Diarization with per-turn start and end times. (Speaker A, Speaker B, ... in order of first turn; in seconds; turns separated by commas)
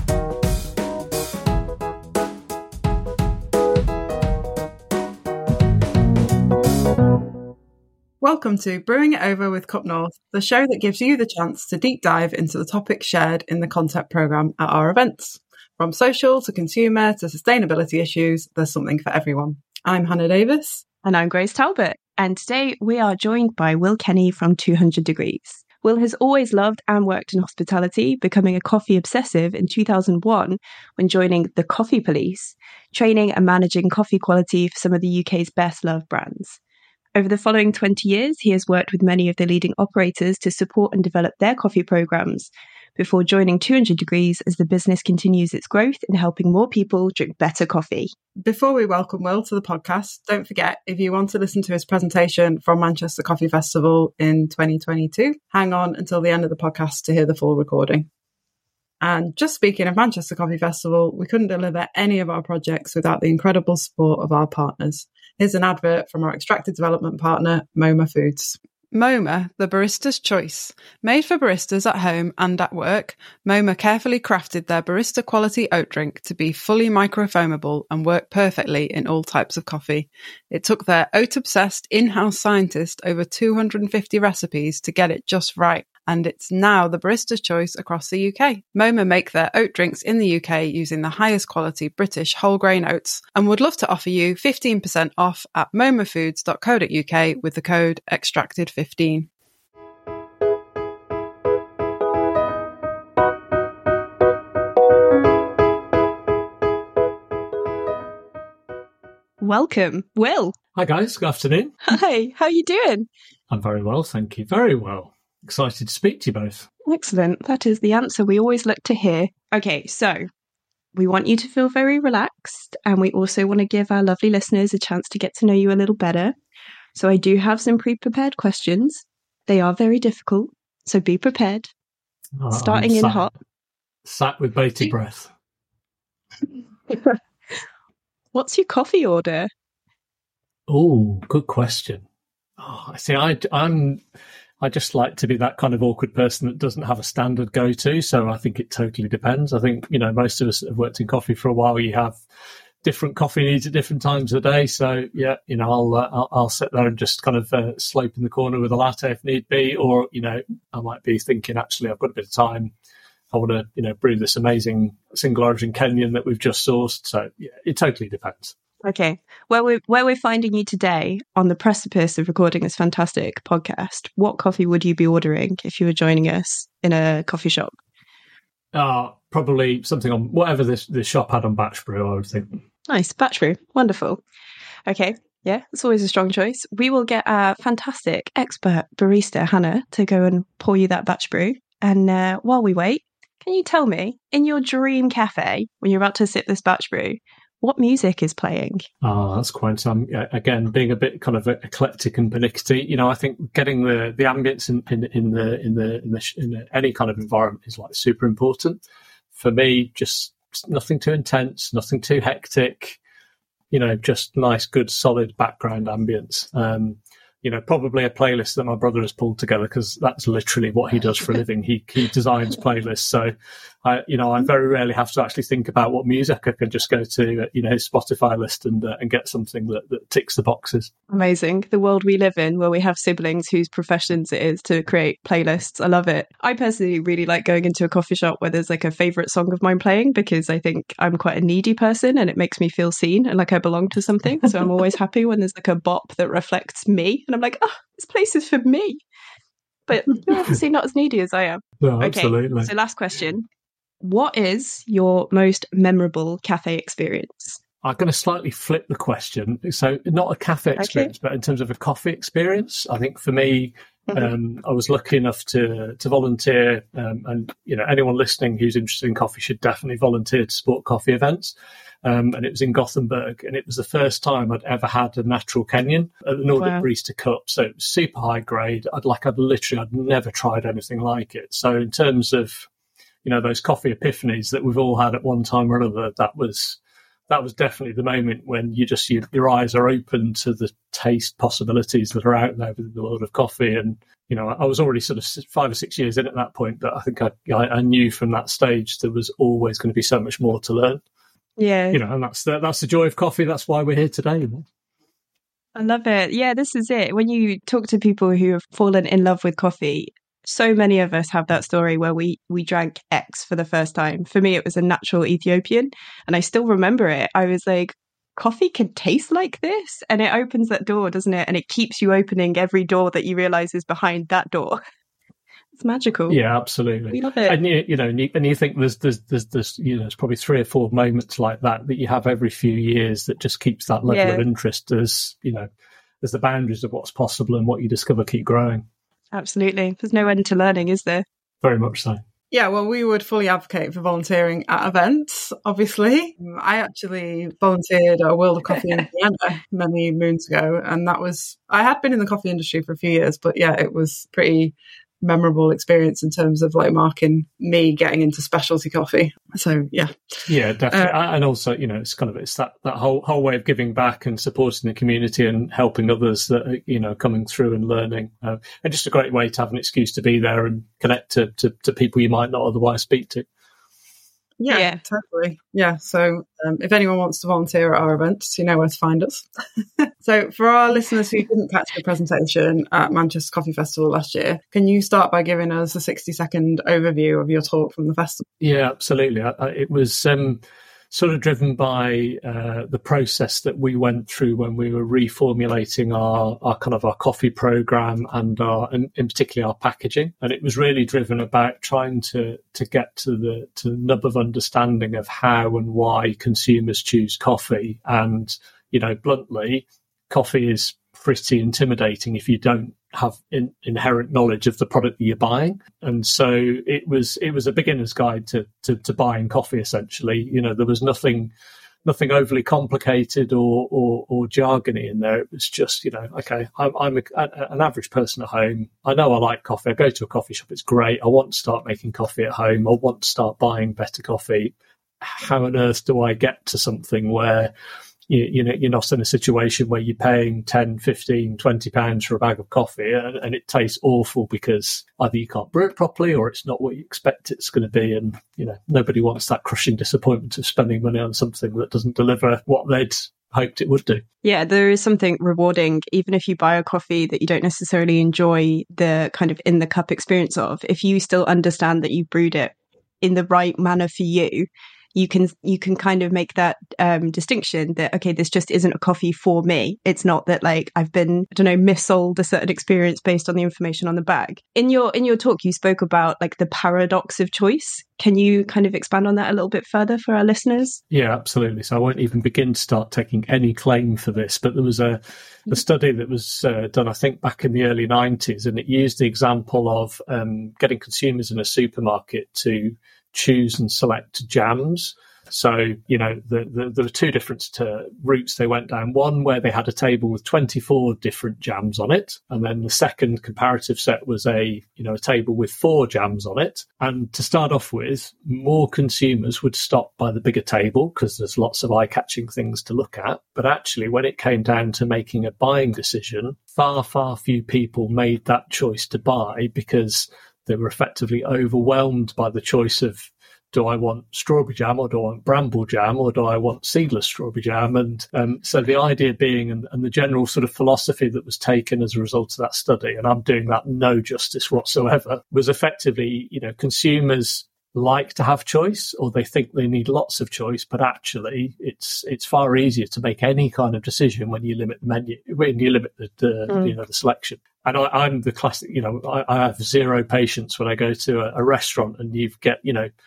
Speaker A: 8.2-20.8, Speaker B: 21.0-36.6, Speaker B: 37.1-48.1, Speaker A: 48.4-58.1, Speaker A: 59.0-99.3, Speaker B: 109.4-110.5, Speaker C: 110.7-111.8, Speaker B: 111.8-113.1, Speaker C: 113.5-116.7, Speaker B: 116.8-120.3, Speaker B: 120.9-126.3, Speaker B: 126.9-131.7, Speaker C: 132.4-133.3, Speaker B: 132.5-133.3, Speaker C: 134.0-135.3, Speaker B: 136.9-137.2, Speaker B: 138.3-139.5, Speaker C: 140.7-142.0, Speaker C: 142.6-144.0, Speaker C: 144.6-152.2, Speaker C: 152.8-162.7, Speaker C: 163.3-168.5, Speaker B: 168.8-177.8, Speaker C: 178.7-182.6, Speaker B: 182.9-184.2, Speaker B: 184.9-198.8, Speaker C: 199.0-208.8, Speaker C: 209.3-213.0, Speaker C: 213.7-223.3, Speaker C: 223.8-230.9, Speaker B: 231.1-249.0, Speaker B: 249.9-253.5, Speaker C: 251.8-252.7, Speaker B: 254.0-257.6, Speaker C: 257.8-282.7, Speaker B: 260.8-261.1, Speaker B: 276.6-276.8, Speaker C: 283.2-301.0, Speaker B: 301.6-302.0, Speaker C: 301.9-304.6, Speaker B: 305.7-324.8, Speaker B: 325.8-326.4, Speaker C: 326.3-335.7, Speaker B: 327.1-327.6, Speaker B: 334.1-334.4, Speaker C: 336.2-338.8, Speaker B: 339.3-341.2, Speaker C: 341.6-342.2, Speaker A: 342.5-361.1, Speaker C: 360.5-373.4, Speaker A: 374.6-379.5, Speaker B: 374.7-375.0, Speaker A: 380.2-388.4, Speaker C: 388.6-421.5, Speaker C: 422.0-437.7, Speaker C: 438.3-454.2, Speaker B: 454.4-481.0, Speaker C: 481.1-553.1